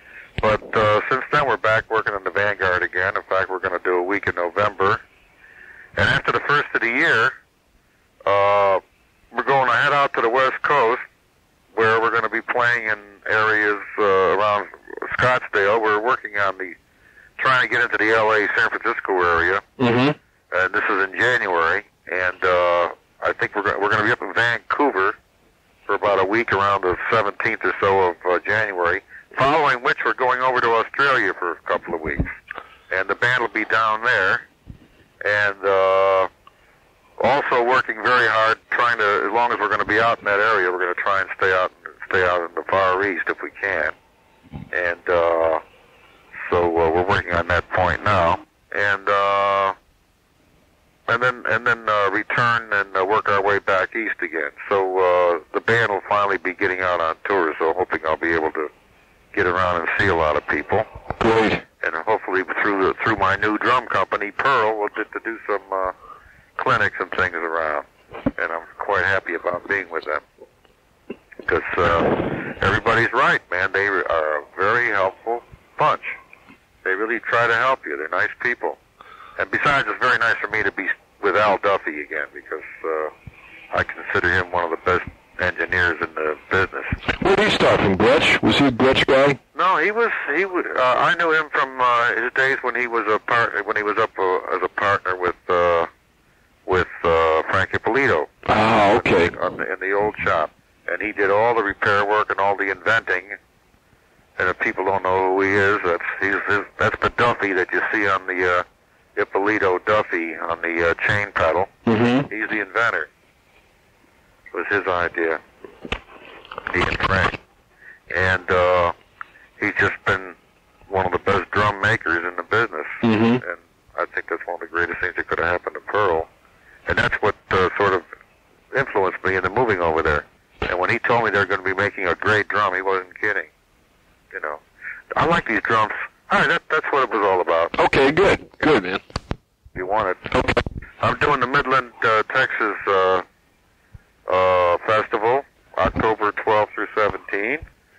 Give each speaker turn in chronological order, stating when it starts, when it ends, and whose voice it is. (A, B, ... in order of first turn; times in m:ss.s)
0:00.4-0:05.0 A
0:06.0-0:07.3 A
0:08.3-0:08.8 A
0:09.3-0:11.0 A
0:11.7-0:16.8 A
0:17.4-0:19.6 A
0:19.8-0:20.2 B
0:20.5-0:25.2 A
0:25.9-0:32.3 A
0:32.9-0:34.4 A
0:35.2-0:36.3 A
0:37.2-0:44.0 A
0:44.7-0:45.6 A
0:46.4-0:49.8 A
0:51.1-0:58.7 A
0:59.3-1:00.9 A
1:01.2-1:01.6 B
1:01.8-1:05.9 A
1:06.6-1:07.8 A
1:08.4-1:10.2 A
1:11.4-1:16.2 A
1:16.8-1:18.8 A
1:19.4-1:23.1 A
1:23.7-1:27.0 A
1:27.2-1:29.4 B
1:29.5-1:35.9 A
1:36.7-1:38.3 A
1:38.5-1:39.3 B
1:38.9-1:43.4 A
1:44.4-1:48.6 A
1:49.2-1:51.7 A
1:51.9-1:52.3 B
1:52.3-1:53.1 A
1:54.5-1:55.4 A
1:56.7-1:57.4 A
1:58.1-1:58.9 A
1:59.6-2:00.4 A
2:00.9-2:06.3 A
2:03.0-2:03.4 B
2:06.9-2:08.0 A
2:08.7-2:13.5 A
2:14.3-2:14.6 A
2:15.1-2:17.7 A
2:17.8-2:19.0 B
2:19.8-2:20.3 A
2:21.0-2:23.2 A
2:24.3-2:27.6 A